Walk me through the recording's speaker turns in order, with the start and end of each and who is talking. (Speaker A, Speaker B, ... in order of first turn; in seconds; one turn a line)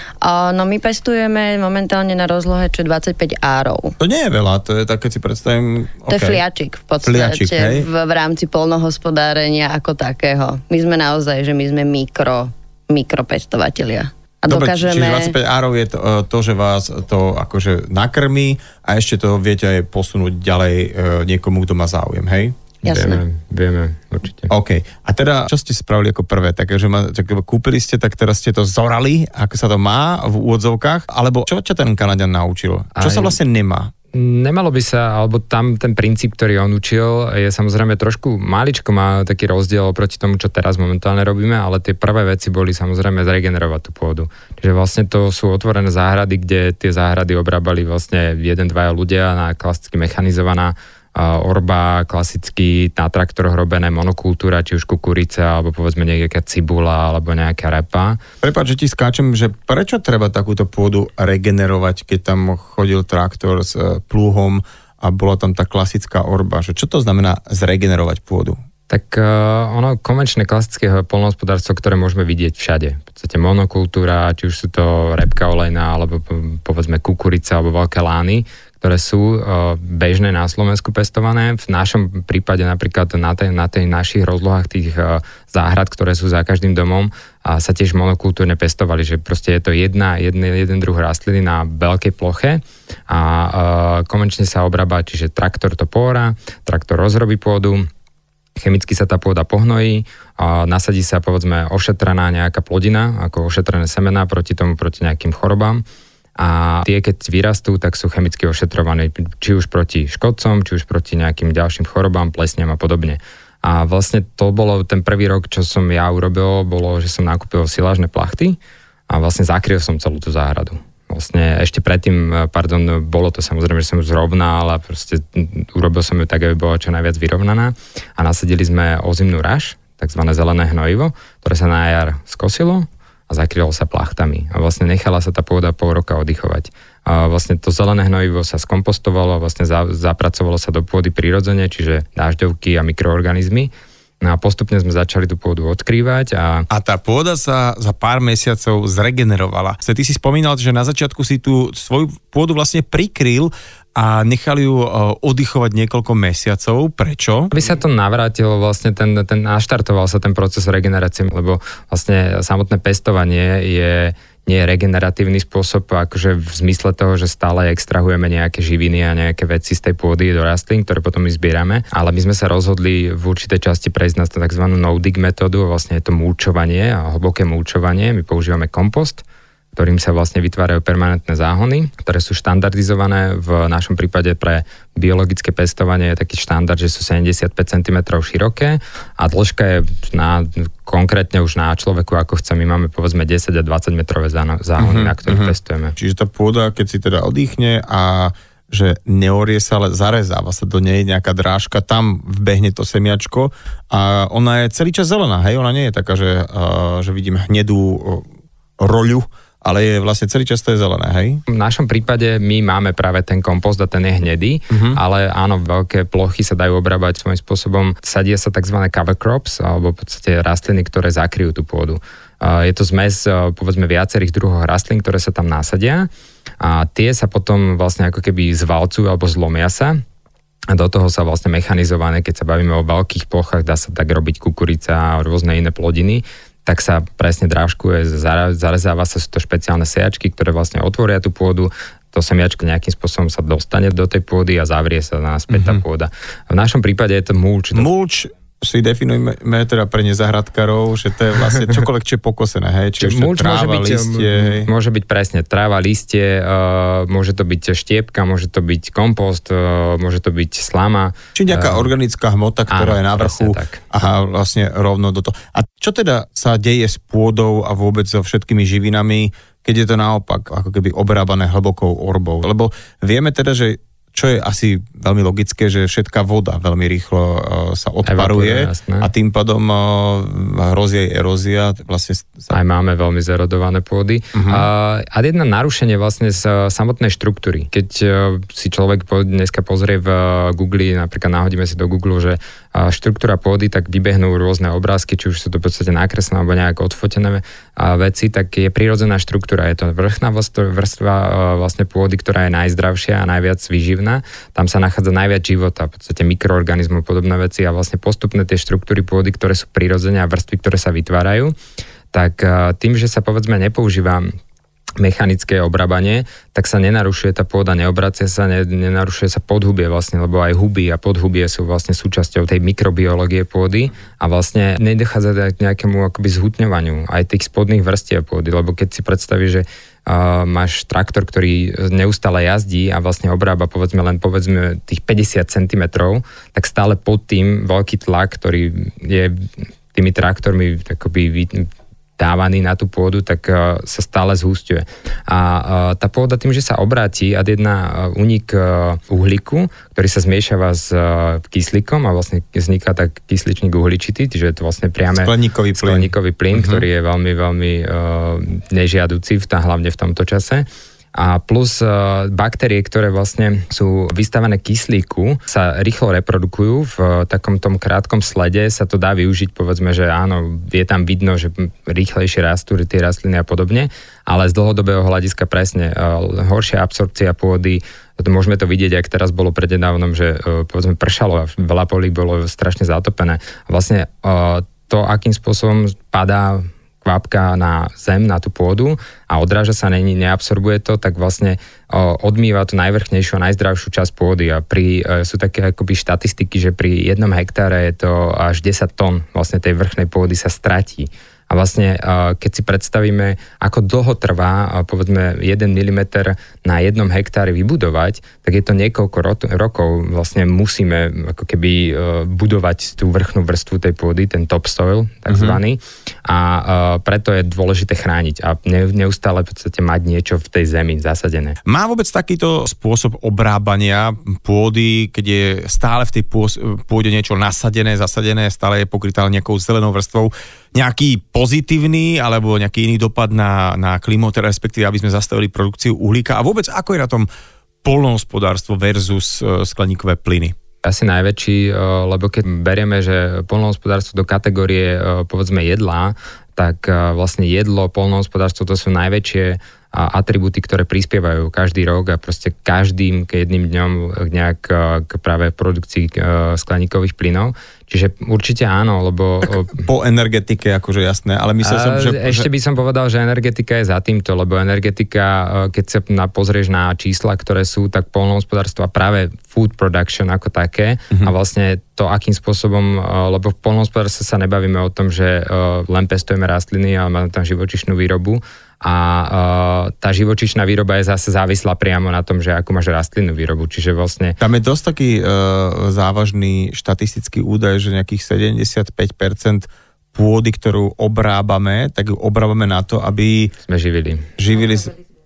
Speaker A: 0.2-4.0
Speaker B: 4.0-6.4
Speaker A: 6.1-15.4
Speaker B: 7.0-7.9
Speaker B: 14.5-22.6
Speaker A: 22.8-23.2
Speaker C: 22.9-24.5
Speaker B: 24.5-33.9
Speaker C: 33.0-33.4
Speaker C: 34.1-58.2
Speaker B: 58.4-68.6
Speaker C: 68.9-97.9
Speaker C: 98.6-105.8
Speaker C: 106.4-118.6
Speaker C: 119.1-146.7
Speaker B: 146.7-157.5
Speaker C: 157.5-179.2
Speaker C: 179.8-196.0
Speaker B: 194.8-208.3
Speaker B: 208.8-211.4
Speaker C: 211.5-226.1
Speaker B: 214.7-215.0
Speaker C: 226.6-230.0
Speaker C: 230.7-247.9
Speaker B: 245.5-245.8
Speaker B: 247.7-254.7
Speaker C: 253.0-261.9
Speaker B: 261.4-282.6
Speaker C: 262.7-263.8
Speaker C: 278.1-279.1
Speaker C: 282.5-311.6
Speaker B: 284.3-284.7
Speaker C: 312.1-314.3
Speaker C: 315.0-421.6
Speaker B: 355.1-356.9
Speaker B: 415.3-415.6
Speaker B: 421.7-437.3
Speaker B: 437.8-440.6
Speaker C: 440.8-459.9
Speaker B: 459.7-462.5
Speaker C: 461.6-484.4
Speaker B: 484.4-493.5
Speaker C: 493.6-494.3
Speaker B: 494.4-495.0